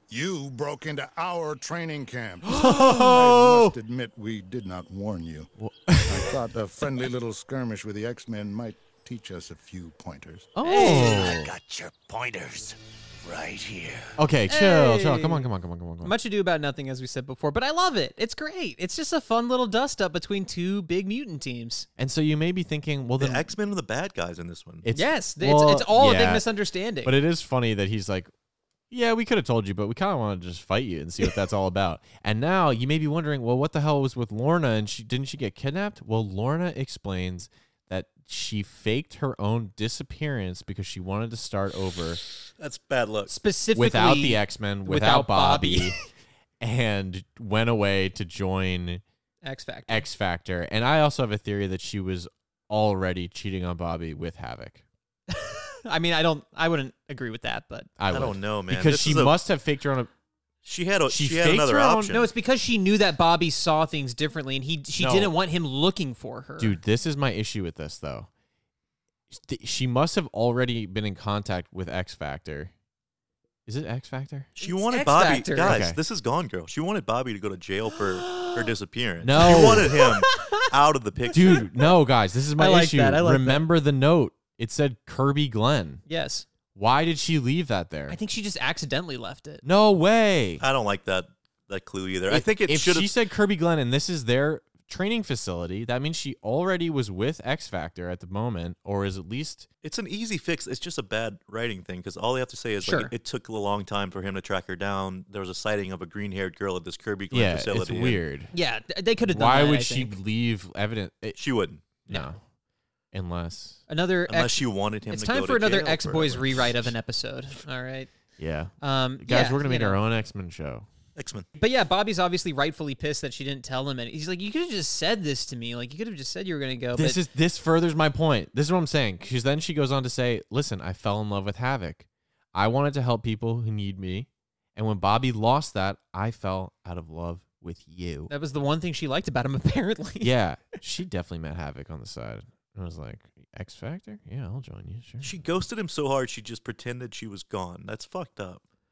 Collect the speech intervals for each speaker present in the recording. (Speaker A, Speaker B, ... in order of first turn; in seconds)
Speaker A: 0.1-5.5, 6.0-10.5
Speaker B: 2.4-3.8, 5.6-6.4, 10.6-11.5, 14.2-16.1, 22.0-23.5, 24.8-26.5, 27.0-28.3, 28.9-42.2, 43.8-46.0, 46.6-49.0, 49.9-54.8, 58.0-60.1, 61.1-62.1, 65.0-65.3, 66.6-68.3, 69.3-72.7, 73.7-74.5, 75.6-76.0, 79.2-80.0, 81.3-86.0, 86.8-88.2, 89.6-90.6, 92.3-99.7, 107.3-108.5, 109.2-111.4, 112.0-112.4, 113.1-113.8, 118.4-120.9, 126.9-138.3, 140.2-145.3
Speaker C: 10.7-11.3, 14.5-15.5, 16.0-21.9, 24.9-27.1, 43.3-46.0, 49.4-50.1, 55.3-57.9, 62.1-66.8, 74.6-75.8, 78.2-78.7, 79.4-80.6, 82.6-83.7, 86.1-86.5, 88.1-89.6, 102.8-103.1, 108.5-110.2, 113.9-118.1, 118.8-120.0, 121.6-127.2, 138.3-140.3
Speaker D: 10.8-14.2
Speaker E: 23.2-24.9, 42.6-43.3, 58.1-59.4, 60.6-62.3, 74.6-81.7, 90.6-93.1, 99.8-108.2, 111.4-112.0, 114.3-116.9, 121.2-121.5, 145.2-148.6